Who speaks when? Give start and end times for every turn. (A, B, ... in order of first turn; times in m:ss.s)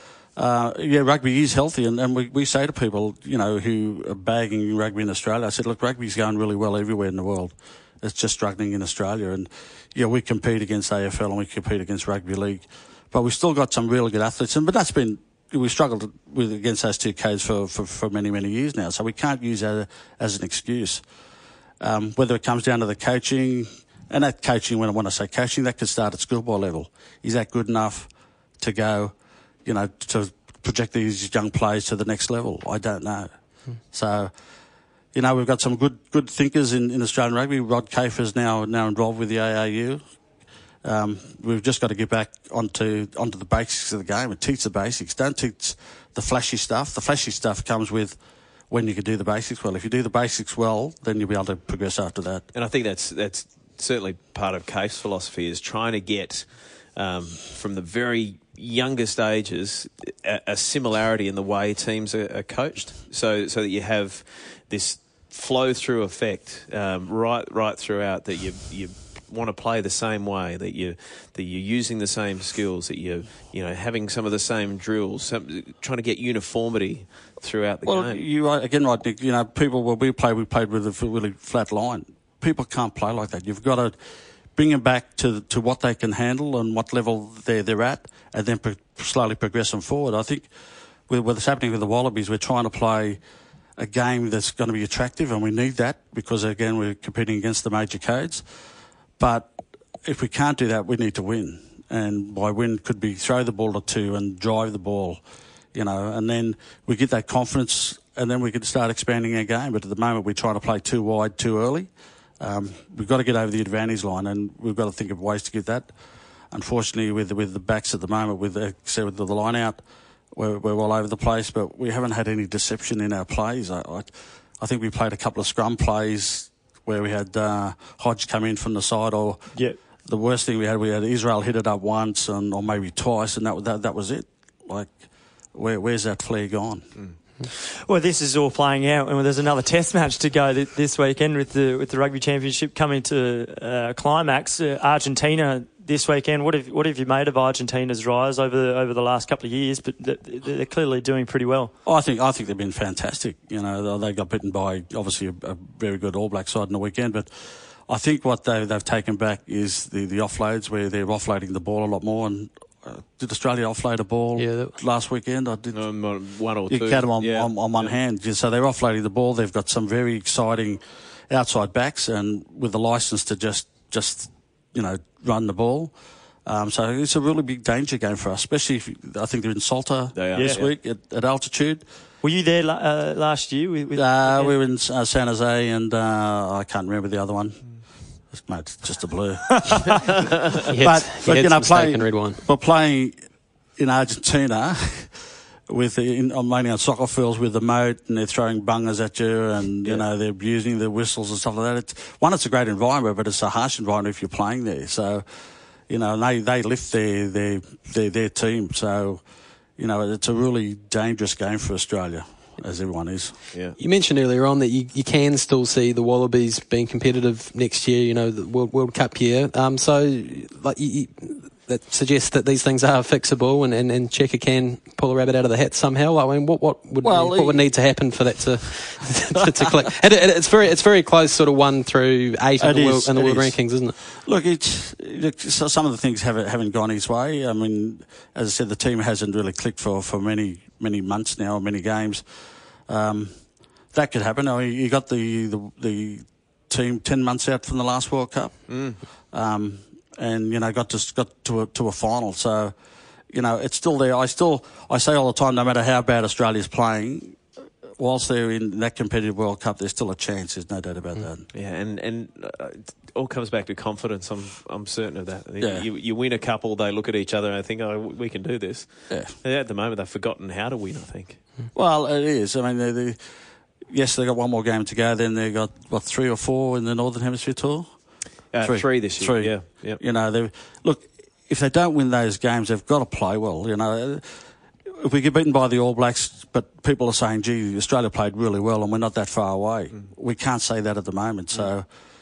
0:00.4-0:21.0 A
0:21.8-0:29.1 A
0:29.6-0:33.3 A
0:33.9-0:34.3 A
0:35.1-0:40.0 A
0:40.8-0:48.2 A
0:48.7-0:52.4 A
0:52.5-1:18.2 B
1:17.8-1:24.0 A
1:24.5-1:30.5 A
1:31.1-1:33.2 A
1:33.8-1:38.4 A
1:39.2-1:39.5 A
1:40.0-1:45.2 A
1:45.7-1:55.9 A
1:56.5-1:59.8 A
2:00.3-2:15.0 A
2:15.5-2:16.8 A
2:17.5-2:31.7 C
2:31.8-2:45.8 A
2:44.4-2:44.8 D
2:45.7-2:47.9 B
2:46.7-2:55.9 A
2:56.4-3:01.8 A
3:00.1-3:00.7 B
3:00.4-3:00.6 C
3:02.2-3:04.5 C
3:03.9-3:07.6 A
3:08.3-3:10.2 A
3:10.7-3:12.4 D
3:10.7-3:13.2 A
3:13.8-3:25.2 A
3:25.9-3:29.2 A
3:29.8-3:33.4 A
3:33.8-3:54.0 D
3:47.0-3:47.6 A
3:52.6-4:02.2 A
4:02.9-4:03.4 A
4:03.9-4:12.7 A
4:08.7-4:09.0 B
4:13.3-4:17.4 A
4:18.0-4:21.5 A
4:21.5-4:31.4 B
4:25.6-4:25.8 A
4:31.7-4:33.2 A
4:33.9-4:37.9 A
4:38.5-4:40.0 B
4:38.6-4:51.9 A